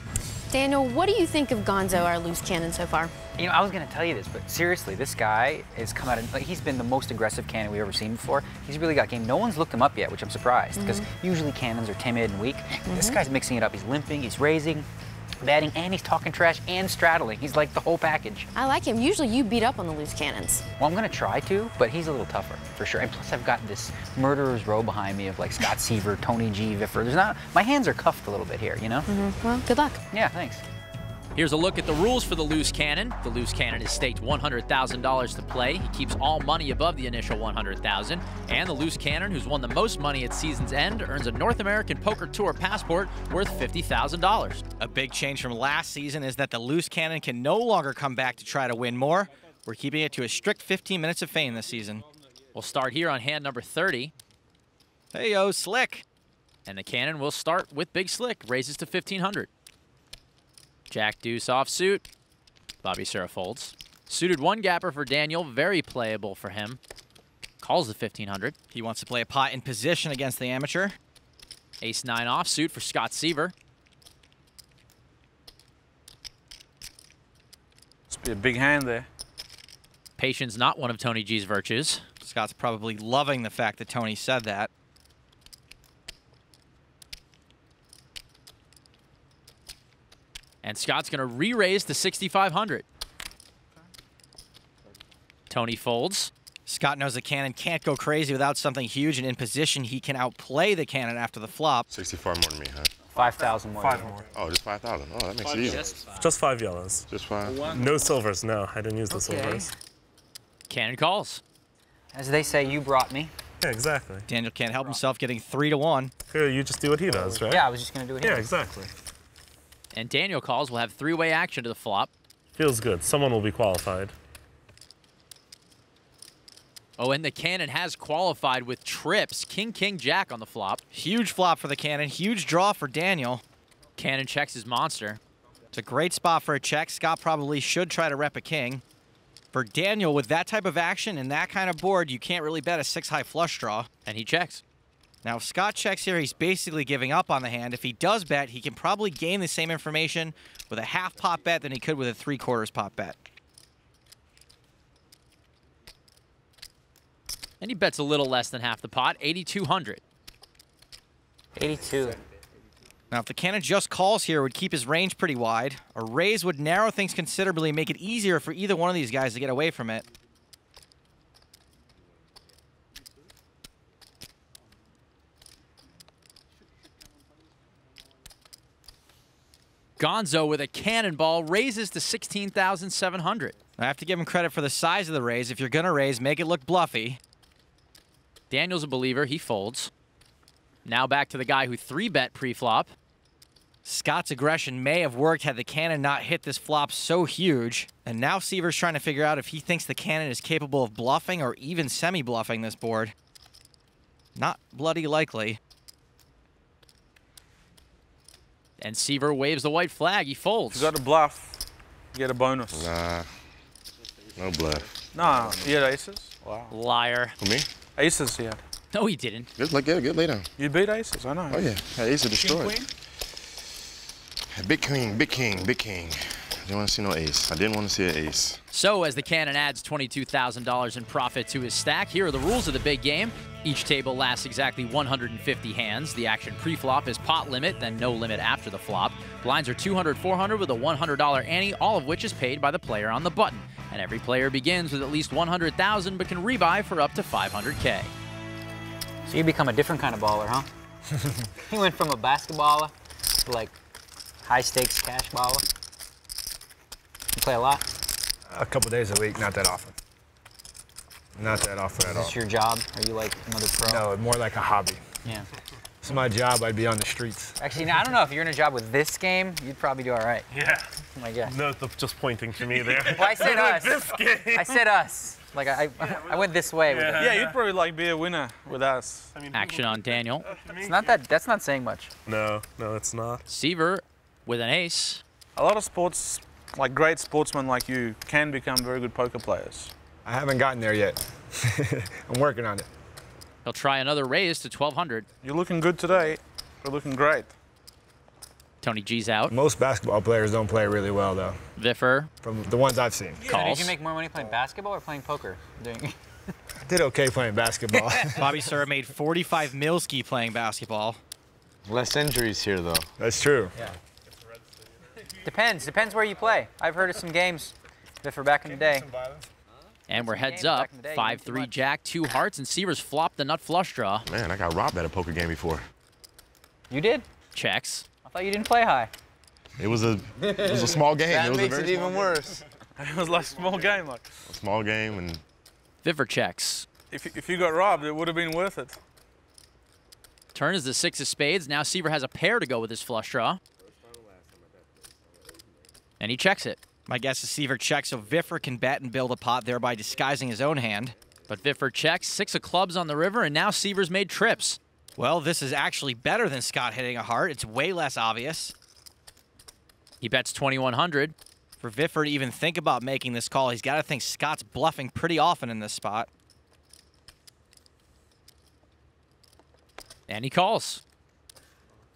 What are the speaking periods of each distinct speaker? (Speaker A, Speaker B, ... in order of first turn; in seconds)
Speaker A: 0.5-3.1, 10.8-11.1, 12.8-13.2, 18.5-20.6, 29.1-30.0
Speaker B: 3.4-14.9, 15.4-18.5, 20.8-29.1, 30.1-30.6, 103.1-104.2, 105.6-106.3, 109.1-109.7, 112.1-113.3, 117.4-118.5, 161.6-162.2, 249.3-250.7, 251.7-253.7, 254.4-255.7, 257.4-257.9, 262.1-264.0, 267.6-270.5, 271.2-271.5, 273.0-277.4, 280.8-282.1, 303.5-306.2, 315.4-319.1, 320.1-321.8, 326.9-327.2, 328.3-329.1
Speaker C: 31.4-44.6, 52.5-54.1, 56.7-59.5, 60.9-62.0, 62.8-66.8, 67.6-68.5, 71.8-73.5, 80.2-82.0, 90.6-92.8, 95.5-96.3, 110.7-111.4, 119.9-122.1, 127.0-130.8, 134.0-135.2, 144.1-144.6, 157.6-160.0, 180.0-183.6, 188.5-189.9, 190.8-192.9, 208.8-210.9, 216.7-217.3, 218.9-219.5, 228.7-248.1, 279.5-280.5, 283.5-285.2, 293.6-295.3, 298.8-299.5, 301.8-302.3, 303.5-303.9, 320.1-324.3, 327.5-328.1, 336.0-336.9, 340.6-343.6, 346.2-346.8, 351.5-354.8, 360.2-361.4, 370.3-371.0
Speaker D: 44.8-52.0, 55.1-56.0, 68.7-71.0, 82.2-84.7, 96.7-101.9, 114.3-116.1, 130.9-133.4, 135.7-138.8, 139.5-143.9, 145.2-153.2, 163.1-170.1, 183.8-187.2, 193.8-203.1, 204.4-205.6, 308.4-311.2, 347.1-351.2, 355.2-358.7, 361.8-366.3
Speaker E: 78.1-79.1, 210.7-211.6, 212.1-212.9, 215.1-216.7, 218.0-218.6, 220.6-221.7, 222.4-222.9, 277.1-279.3, 285.6-289.9, 295.4-297.5, 333.0-334.3, 337.1-339.0
Speaker F: 101.9-102.9, 104.3-105.9, 107.1-107.7, 212.7-213.3, 214.4-215.6, 217.4-217.7, 219.6-220.5, 221.5-222.8, 224.5-228.6, 324.3-325.9, 329.8-332.1, 334.5-335.4
Speaker G: 103.8-104.2, 106.2-107.1, 107.6-109.7, 113.6-114.3, 116.3-117.7, 118.2-118.9, 122.5-124.1, 270.5-274.8, 276.1-277.6, 279.3-280.9, 282.3-283.4
Speaker H: 258.5-260.0, 261.4-262.4, 263.8-265.1, 266.0-267.6, 290.2-292.9, 299.5-301.6, 302.4-303.5, 306.9-308.6, 313.2-313.7, 318.7-319.5
Speaker I: 311.9-313.1, 331.3-332.6